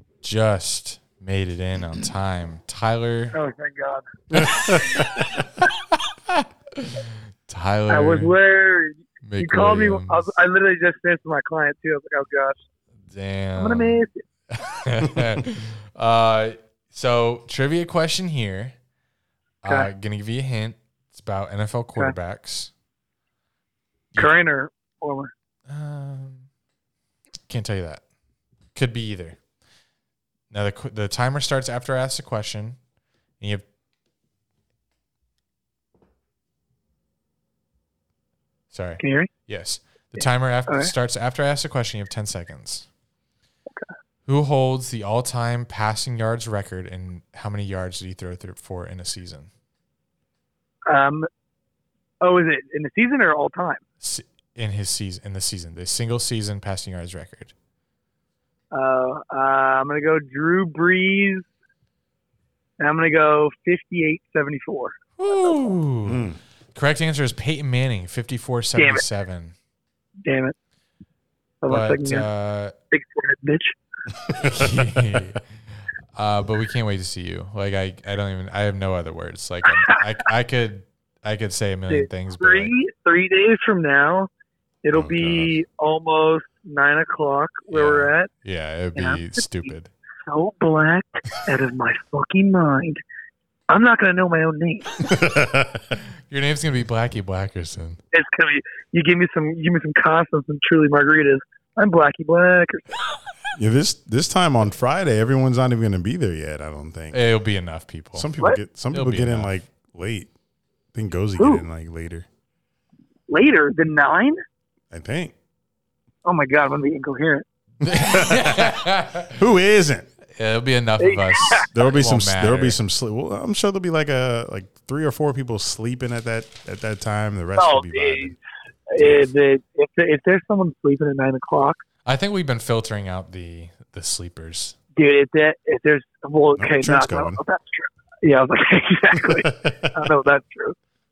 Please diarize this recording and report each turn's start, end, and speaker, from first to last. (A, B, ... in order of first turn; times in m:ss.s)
0:00.2-0:03.4 A
0:03.3-0:04.1 B
0:04.3-0:05.0 A
0:04.3-0:05.2 C
0:06.8-0:08.3 A
0:07.9-0:12.6 B
0:09.2-0:10.2 A
0:13.1-0:18.8 A
0:13.6-0:14.2 B
0:19.6-0:22.7 A
0:24.2-0:25.3 B
0:25.7-0:26.5 A
0:27.5-0:28.0 A
0:28.7-0:29.4 A
0:30.5-0:32.8 A
0:33.4-0:33.6 A
0:38.7-0:42.9 A
0:39.0-0:39.3 B
0:40.2-0:40.9 B
0:44.3-0:49.5 A
0:50.9-0:51.3 B
0:52.2-0:53.8 B
0:54.0-0:57.5 A
0:58.7-1:01.4 B
1:02.8-1:04.9 B
1:05.2-1:09.5 A
1:06.0-1:06.4 C
1:08.8-1:09.0 B
1:10.2-1:10.5 B
1:11.6-1:12.3 B
1:11.7-1:12.7 A
1:12.9-1:13.7 B
1:14.4-1:14.7 C
1:14.4-1:15.4 A
1:16.1-1:22.7 A
1:21.9-1:24.3 B
1:24.8-1:28.3 B
1:24.9-1:25.5 C
1:27.7-1:29.9 A
1:29.0-1:29.7 B
1:30.2-1:33.0 B
1:33.7-1:35.0 B
1:35.0-1:35.8 C
1:36.3-1:38.0 A
1:38.1-1:42.9 B
1:43.6-1:47.2 C
1:47.1-1:48.3 A
1:48.1-1:50.3 C
1:48.9-1:49.6 A
1:50.9-1:52.3 C
1:51.4-1:51.6 B
1:53.3-1:54.4 B
1:54.9-1:55.3 C
1:56.2-1:57.4 B
1:57.8-1:59.4 A
1:57.8-2:00.1 C
2:00.3-2:02.8 A
2:01.0-2:01.7 B
2:01.7-2:08.4 C
2:07.5-2:08.4 B
2:08.9-2:11.8 B
2:12.0-2:14.8 A
2:15.0-2:20.8 B
2:16.6-2:17.4 C
2:19.3-2:19.9 C